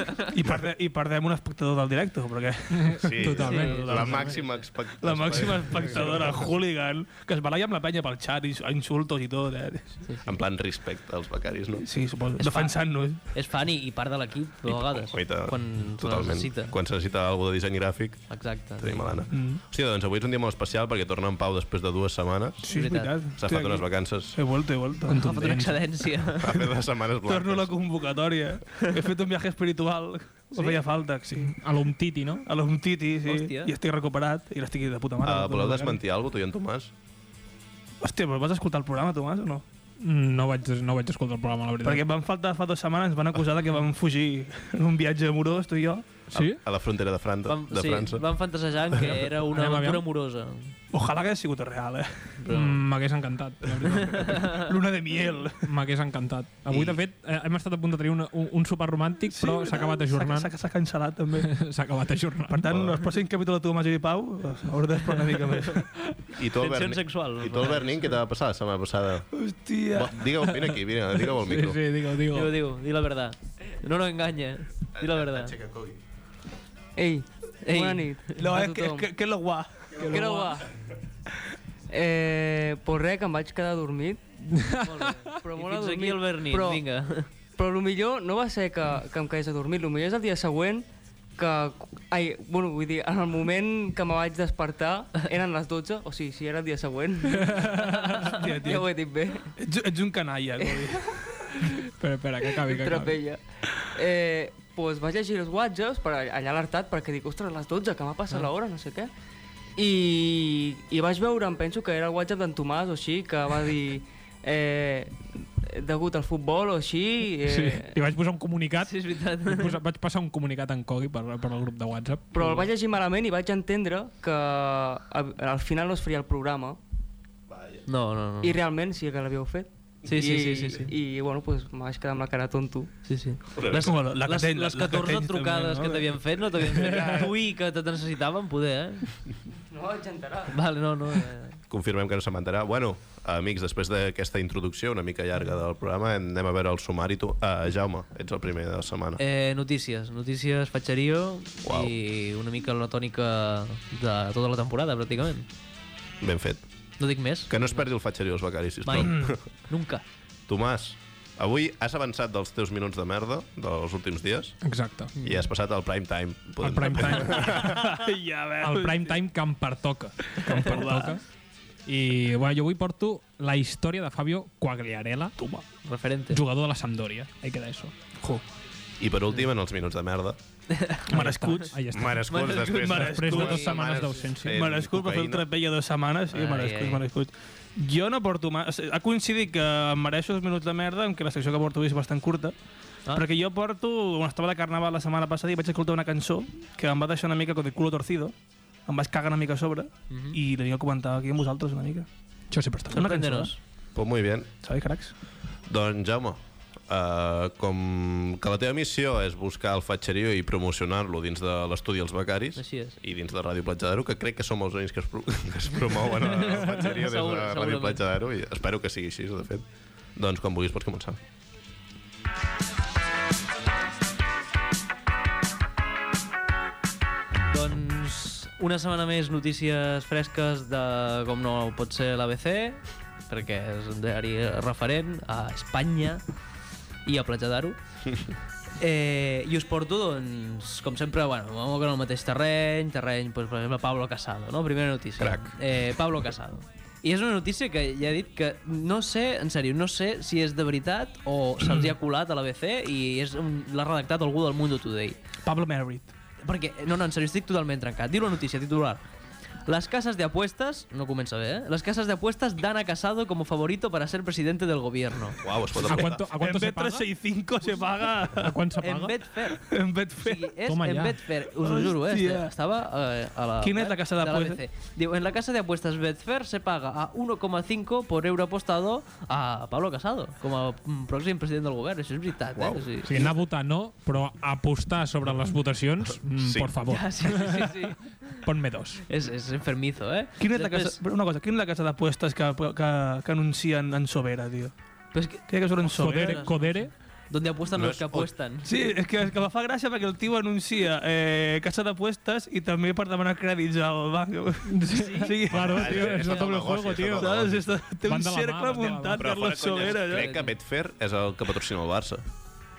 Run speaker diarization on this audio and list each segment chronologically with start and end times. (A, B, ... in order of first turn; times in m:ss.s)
0:00.3-0:04.3 A
0:02.7-0:04.5 B
0:03.0-0:06.4 C
0:03.4-0:04.2 D
0:05.0-0:10.0 A
0:10.0-0:10.4 D
0:10.2-0:11.9 C
0:11.8-0:13.2 A
0:12.4-0:16.7 D
0:14.9-0:24.4 C
0:18.3-0:19.2 D
0:19.3-0:19.6 A
0:22.6-0:25.2 A
0:22.7-0:23.1 D
0:25.1-0:26.1 B
0:25.1-0:26.7 D
0:26.4-0:27.8 C
0:27.2-0:31.7 A
0:30.5-0:30.8 D
0:31.3-0:32.5 B
0:32.4-0:36.0 A
0:33.2-0:33.7 D
0:35.2-0:36.9 C
0:38.0-0:39.6 A
0:40.0-0:42.0 B
0:41.8-0:46.0 A
0:46.3-0:46.6 B
0:46.3-0:48.2 C
0:47.4-0:50.7 D
0:49.4-0:50.0 B
0:50.9-0:52.4 A
0:52.4-0:52.8 D
0:52.5-0:54.7 B
0:53.9-0:54.6 D
0:54.5-0:55.6 A
0:55.6-1:00.5 B
0:56.7-0:57.0 C
0:59.3-1:01.5 A
1:01.3-1:02.8 B
1:02.5-1:05.9 A
1:02.7-1:02.9 C
1:05.7-1:08.2 D
1:06.3-1:09.3 C
1:09.3-1:10.2 A
1:09.9-1:11.8 C
1:11.3-1:12.6 B
1:12.3-1:15.6 D
1:15.0-1:16.0 C
1:17.0-1:19.1 E
1:17.6-1:18.4 D
1:18.4-1:20.4 A
1:20.0-1:20.4 D
1:20.0-1:20.7 E
1:21.9-1:24.2 E
1:24.5-1:24.8 B
1:24.8-1:27.3 D
1:25.5-1:26.8 E
1:27.6-1:30.8 E
1:31.4-1:37.7 E
1:37.3-1:38.4 B
1:38.2-1:39.0 A
1:38.3-1:39.5 E
1:39.5-1:41.4 A
1:40.6-1:41.0 E
1:41.6-1:43.1 B
1:42.6-1:49.1 E
1:49.8-1:57.9 E
1:57.5-2:02.6 B
1:58.8-1:59.8 D
2:02.3-2:06.8 E
2:07.5-2:07.8 C
2:07.9-2:08.6 D
2:08.4-2:13.0 E
2:10.0-2:10.9 D
2:13.0-2:19.3 D
2:13.6-2:13.8 C
2:13.7-2:16.2 A
2:16.8-2:17.1 A
2:16.9-2:17.3 B
2:19.7-2:20.5 E
2:20.5-2:21.6 D
2:21.7-2:29.2 C
2:29.2-2:35.5 D
2:31.6-2:31.9 C
2:36.2-2:36.7 C
2:37.0-2:37.9 D
2:37.5-2:39.4 C
2:38.8-2:40.0 D
2:39.0-2:39.4 A
2:40.5-2:44.6 C
2:44.6-2:45.1 B
2:45.1-2:45.5 D
2:45.2-2:47.8 C
2:46.6-2:47.8 B
2:47.6-2:49.2 A
2:48.6-2:51.2 B
2:50.3-2:51.2 A
2:51.8-2:55.4 B
2:55.4-2:55.6 A
2:55.8-2:56.4 D
2:56.3-2:57.9 B
2:59.0-3:00.4 C
3:00.7-3:01.0 D
3:01.1-3:04.6 B
3:01.1-3:01.8 A
3:01.9-3:05.5 C
3:02.3-3:04.1 D
3:02.6-3:03.8 A
3:04.5-3:12.6 A
3:06.3-3:07.0 D
3:13.1-3:18.3 A
3:18.9-3:22.1 A
3:20.1-3:20.4 D
3:22.5-3:23.1 B
3:22.9-3:23.5 A
3:22.9-3:23.6 D
3:23.9-3:24.5 C
3:24.6-3:25.1 A
3:25.7-3:41.2 C
3:32.6-3:33.0 D
3:36.2-3:38.0 D
3:47.5-3:56.2 D
3:57.0-3:57.8 D
3:58.8-4:15.2 D
4:05.2-4:05.6 C
4:15.4-4:16.1 A
4:16.4-4:19.0 D
4:19.6-4:25.4 D
4:25.4-4:26.2 C
4:25.8-4:27.1 B
4:25.9-4:28.6 A
4:28.3-4:29.3 B
4:28.8-4:43.2 D
4:29.6-4:30.5 A
4:30.6-4:31.2 B
4:31.6-4:32.5 A
4:33.6-4:34.6 A
4:42.5-4:43.2 C
4:43.0-4:47.7 B
4:46.4-4:46.7 C
4:46.8-4:48.4 D
4:48.4-4:49.0 B
4:49.1-4:51.0 D
4:50.4-4:54.7 A
4:55.1-4:58.7 D
4:55.4-4:56.5 A
4:55.9-4:56.9 B
4:57.7-4:58.3 C
4:58.6-5:06.4 A
5:04.6-5:07.4 B
5:04.9-5:05.5 D
5:05.5-5:07.8 C
5:06.1-5:06.5 D
5:07.0-5:10.3 A
5:08.0-5:09.5 B
5:09.1-5:12.2 C
5:09.8-5:10.5 D